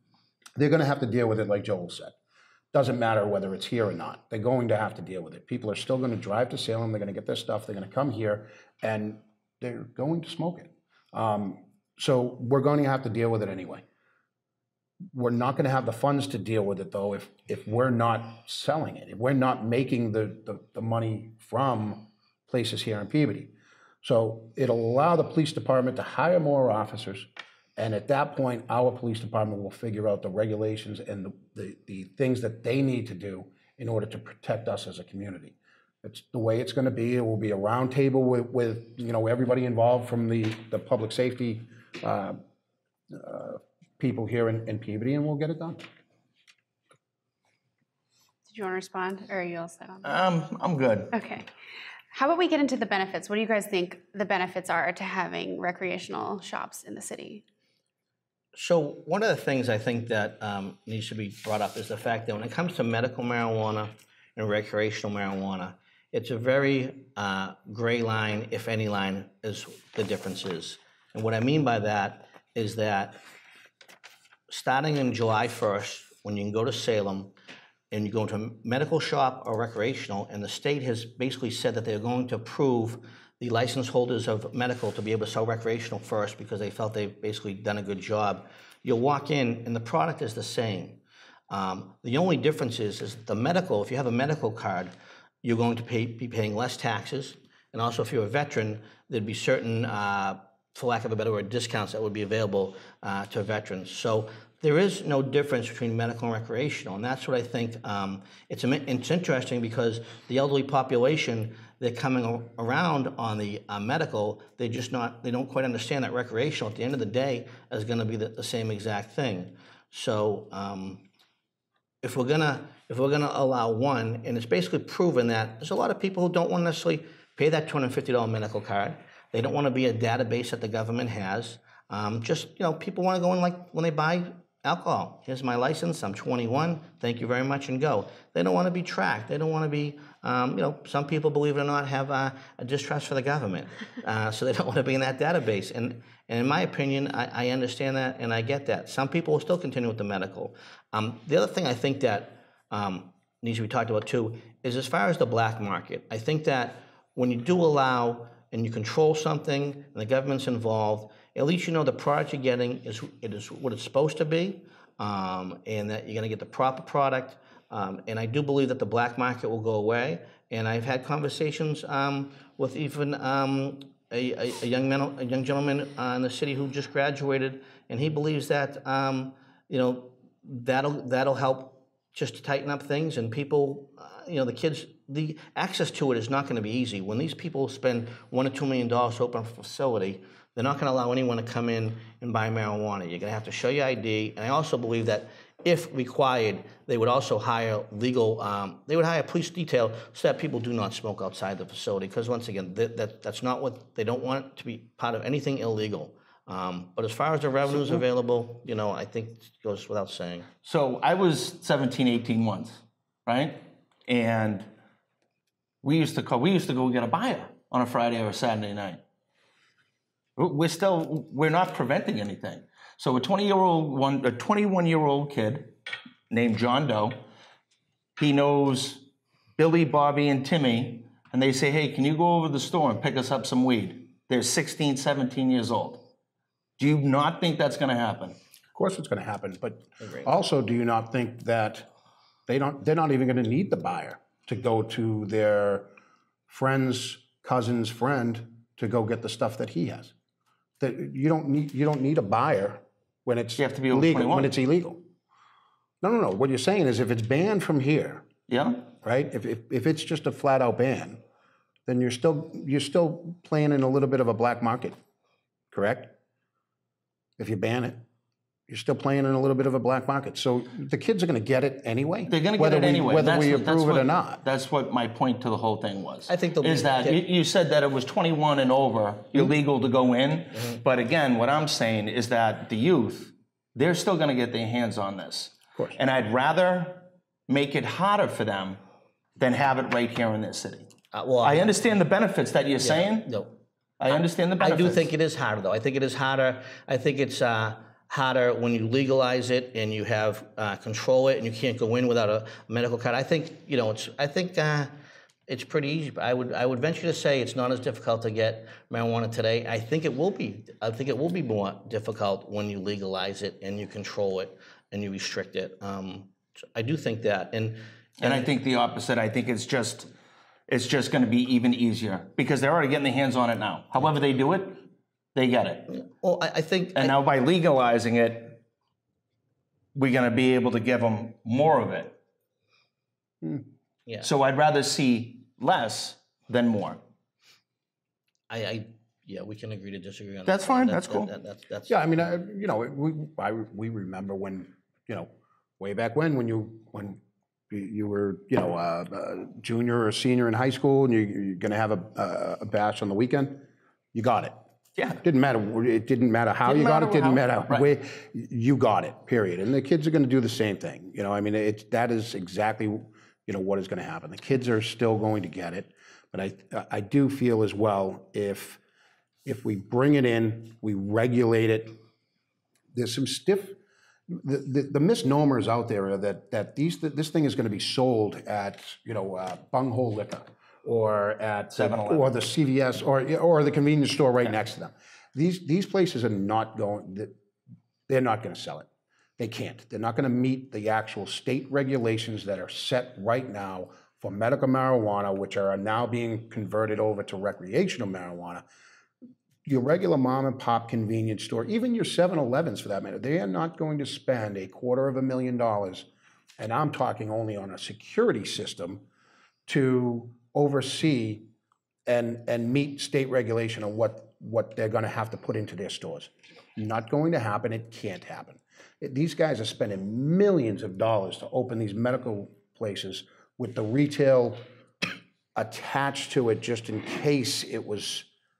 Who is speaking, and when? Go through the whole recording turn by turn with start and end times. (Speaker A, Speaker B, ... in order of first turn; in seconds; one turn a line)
Speaker A: 0.6-2.1
Speaker A: 2.7-13.8
Speaker A: 15.1-42.4
Speaker A: 43.1-45.8
Speaker B: 48.5-50.2
Speaker C: 50.0-51.1
Speaker B: 51.1-51.5
Speaker B: 52.1-57.4
Speaker D: 58.5-73.2
Speaker D: 74.5-77.3
Speaker D: 77.9-121.0
Speaker D: 122.0-210.5
Speaker C: 210.6-214.7
Speaker C: 215.8-219.0
Speaker C: 220.3-225.7
Speaker C: 226.3-227.2
Speaker C: 228.2-236.0
Speaker C: 236.8-238.3
Speaker A: 238.7-241.9
Speaker D: 240.0-240.3
Speaker A: 242.5-245.9
Speaker A: 246.5-250.1
Speaker A: 250.8-255.0
Speaker C: 253.6-254.5
Speaker A: 256.0-258.3
Speaker C: 258.5-258.9
Speaker A: 259.0-261.2
Speaker A: 261.9-264.9
Speaker A: 265.7-266.1
Speaker A: 267.4-268.0
Speaker A: 268.7-274.4
Speaker C: 272.3-288.8
Speaker D: 276.3-277.2
Speaker C: 289.4-290.9
Speaker D: 291.1-291.8
Speaker C: 291.4-293.3
Speaker D: 292.8-293.5
Speaker C: 294.0-295.1
Speaker D: 294.6-304.9
Speaker D: 305.5-318.5
Speaker C: 318.2-320.1
Speaker C: 320.7-325.9
Speaker D: 325.9-327.1
Speaker C: 326.9-328.6
Speaker C: 329.9-332.2
Speaker C: 334.2-337.0
Speaker D: 338.5-342.0
Speaker C: 340.4-341.3
Speaker A: 341.9-354.6
Speaker C: 355.0-355.2
Speaker A: 355.2-368.8
Speaker C: 356.6-357.9
Speaker A: 369.4-371.9
Speaker A: 372.9-373.8
Speaker A: 374.3-387.3
Speaker C: 381.7-382.3
Speaker A: 388.1-398.6
Speaker A: 399.6-409.0
Speaker A: 409.7-411.5
Speaker A: 412.1-424.6
Speaker A: 425.5-428.3